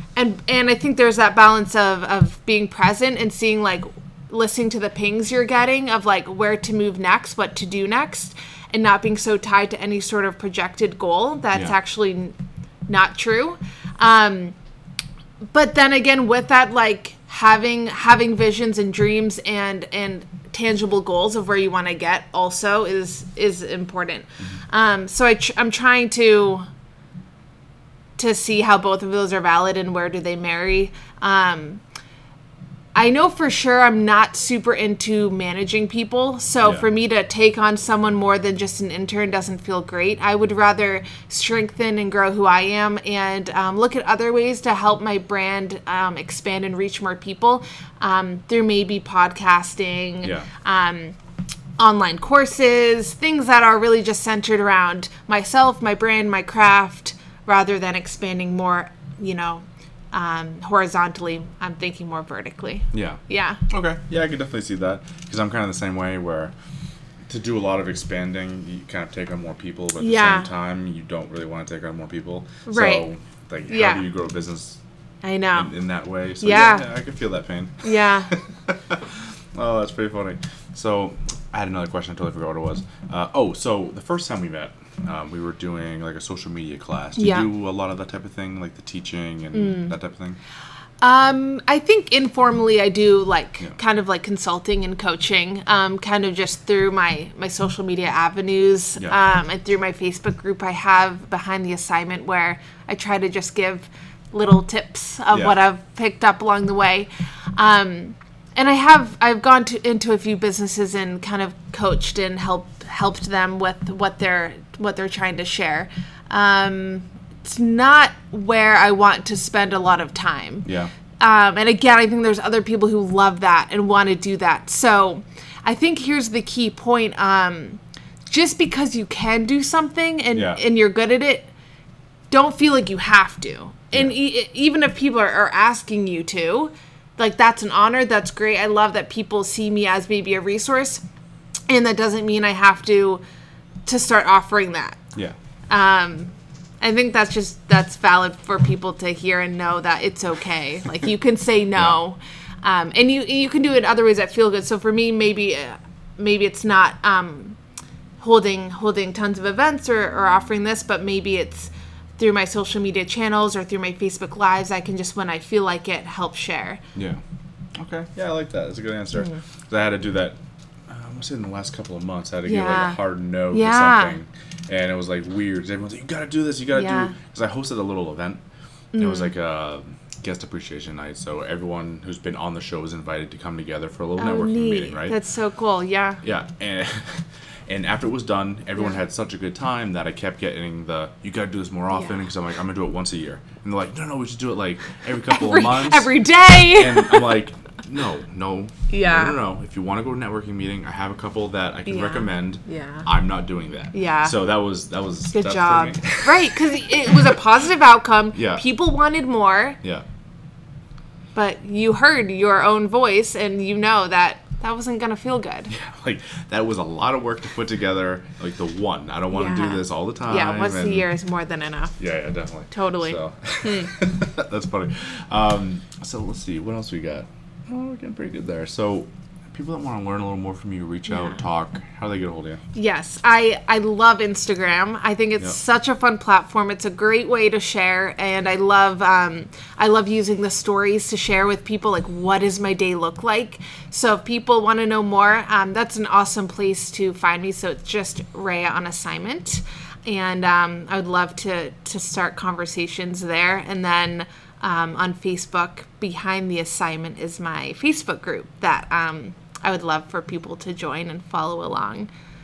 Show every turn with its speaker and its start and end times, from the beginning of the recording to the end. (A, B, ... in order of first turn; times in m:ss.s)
0:00.2-0:12.4 A
0:12.9-0:14.6 A
0:15.5-0:26.6 A
0:28.2-0:31.8 A
0:33.0-0:51.2 A
0:50.2-0:50.5 B
0:51.8-1:03.6 A
1:02.9-1:06.5 B
1:07.3-1:14.8 B
1:10.0-1:10.5 A
1:12.7-1:13.1 A
1:13.7-1:14.0 A
1:15.2-1:15.8 A
1:15.5-1:30.4 B
1:16.4-1:16.9 A
1:17.8-1:18.3 A
1:27.2-1:27.5 A
1:29.5-1:29.9 A
1:31.0-2:00.7 A
2:00.6-2:00.9 B
2:01.2-2:11.5 A
2:10.3-2:10.6 B
2:12.3-2:21.0 A
2:21.7-2:23.2 A
2:23.9-2:25.0 A
2:25.7-2:37.6 A
2:38.2-2:46.8 A
2:47.0-2:47.2 B
2:47.8-2:58.4 B
2:52.5-2:53.0 A
2:53.5-2:54.2 A
2:56.7-2:57.1 A
2:58.9-2:59.3 A
2:59.0-3:05.2 B
3:04.2-3:06.2 A
3:06.2-3:16.1 B
3:15.3-3:17.4 A
3:16.6-3:27.4 B
3:18.9-3:19.4 A
3:21.9-3:23.1 A
3:23.9-3:24.4 A
3:25.3-3:29.8 A
3:28.4-3:28.6 B
3:31.4-3:35.7 A
3:35.7-3:41.1 B
3:39.3-3:42.0 A
3:42.0-3:52.6 B
3:42.7-3:43.9 A
3:52.7-4:22.1 A